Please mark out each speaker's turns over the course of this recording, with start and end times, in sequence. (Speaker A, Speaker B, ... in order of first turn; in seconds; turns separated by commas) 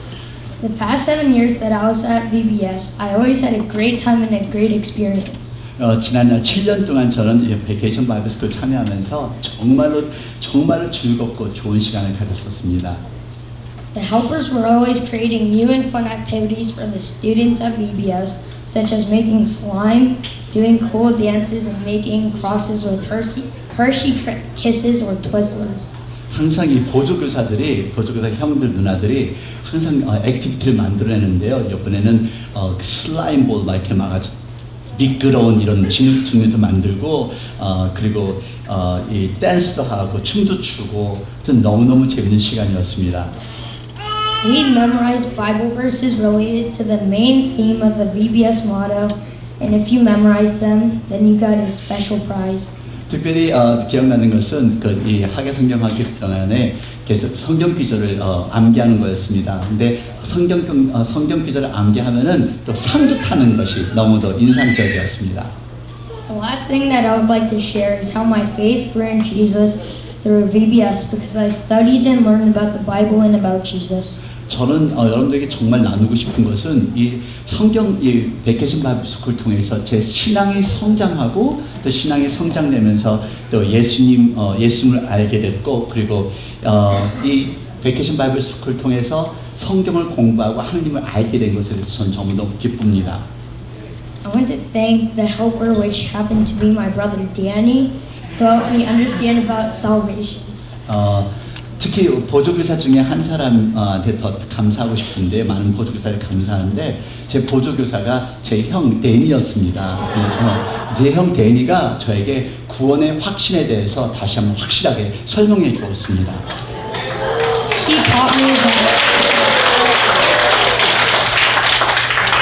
Speaker A: 0.6-5.6, Speaker B: 5.8-13.0, Speaker A: 13.9-25.9, Speaker B: 26.3-34.3, Speaker B: 35.0-43.3, Speaker A: 44.4-52.8, Speaker B: 53.1-65.5, Speaker A: 66.3-74.2, Speaker B: 74.5-93.2, Speaker A: 94.2-100.5, Speaker B: 100.9-101.3, Speaker B: 101.8-116.4, Speaker A: 117.8-119.3